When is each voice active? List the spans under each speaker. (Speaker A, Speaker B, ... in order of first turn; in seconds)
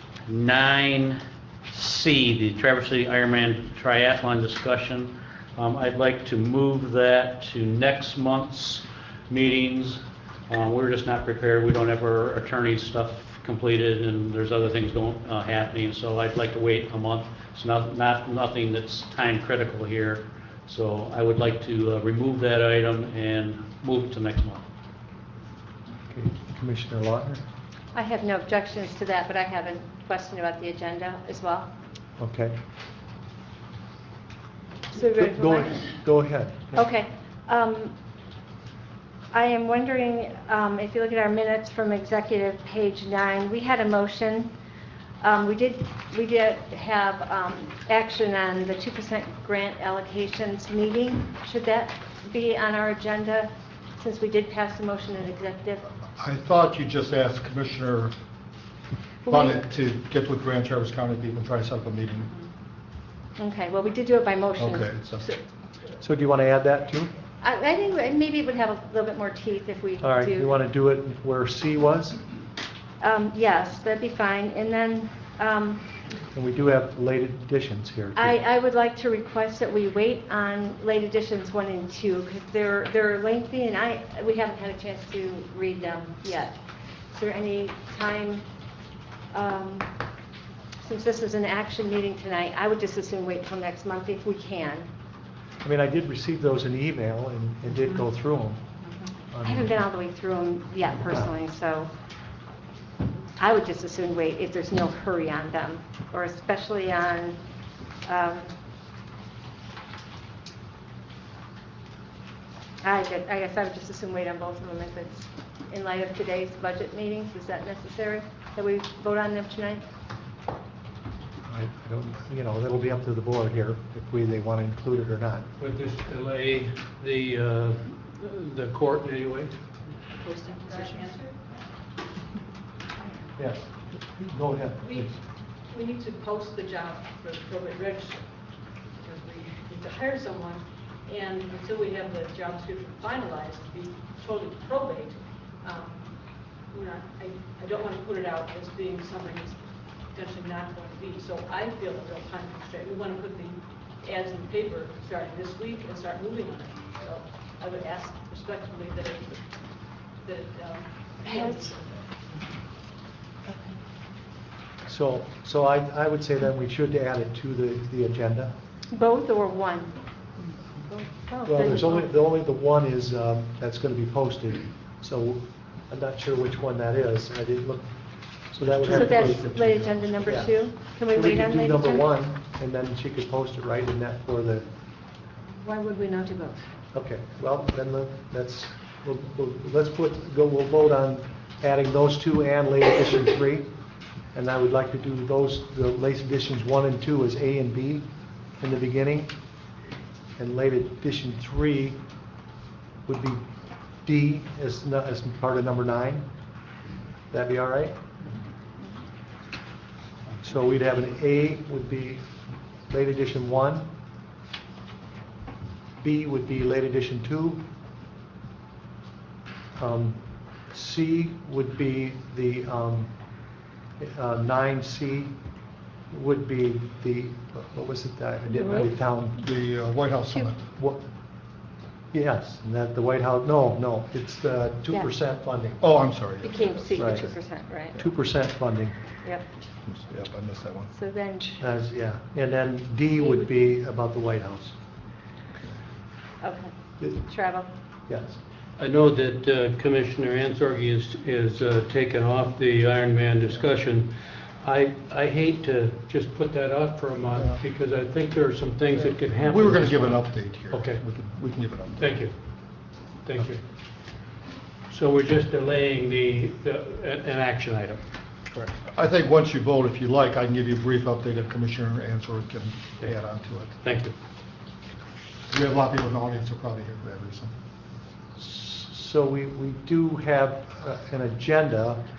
Speaker A: 0.3-1.2, 1.7-24.6
Speaker B: 26.1-27.4, 32.2-32.5, 35.1-36.8, 66.0-67.1, 70.0-72.2, 76.3-78.4, 95.6-98.6, 99.3-99.8, 121.5-125.5, 133.4-135.2, 164.9-168.5, 171.4-184.7, 186.9-193.7, 194.3-198.1, 198.6-199.3, 200.4-202.0, 203.1-203.4, 204.0-206.3, 207.3-208.0, 210.4-212.3, 212.9-213.9, 216.0-217.6, 219.8-223.1, 224.0-225.3, 226.1-229.4, 230.7-231.0, 232.1-235.9, 237.0-237.3, 237.9-239.0, 241.6-244.8, 247.0-247.3, 248.1-248.4, 278.4-282.0
Speaker C: 27.9-31.7, 34.9-35.9, 36.7-37.9, 39.3-44.5, 45.2-55.8, 59.3-59.6, 63.4-65.3, 67.4-70.5, 73.0-75.8, 78.2-86.5, 87.1-88.5, 89.3-89.9, 90.8-94.9, 99.5-101.9, 103.4-107.4, 108.1-108.5, 112.8-119.8, 161.2-161.8, 163.5-163.8, 168.9-170.0, 170.8-172.0, 178.9-182.1, 185.6-186.6, 228.6-228.9, 236.4-238.1, 240.9-241.6, 243.2-243.5, 246.4-247.7
Speaker D: 56.2-58.1, 59.3-62.3, 64.6-65.3, 229.3-230.6, 235.8-237.3, 239.9-240.9, 257.4-257.6, 259.0-262.2, 268.5-273.8, 275.5-277.5
Speaker E: 125.6-129.5, 248.8-254.1, 254.6-261.0, 262.0-262.3, 263.3-263.6, 264.9-268.0
Speaker F: 130.2-131.3, 135.6-138.3, 139.0-159.4, 160.2-161.9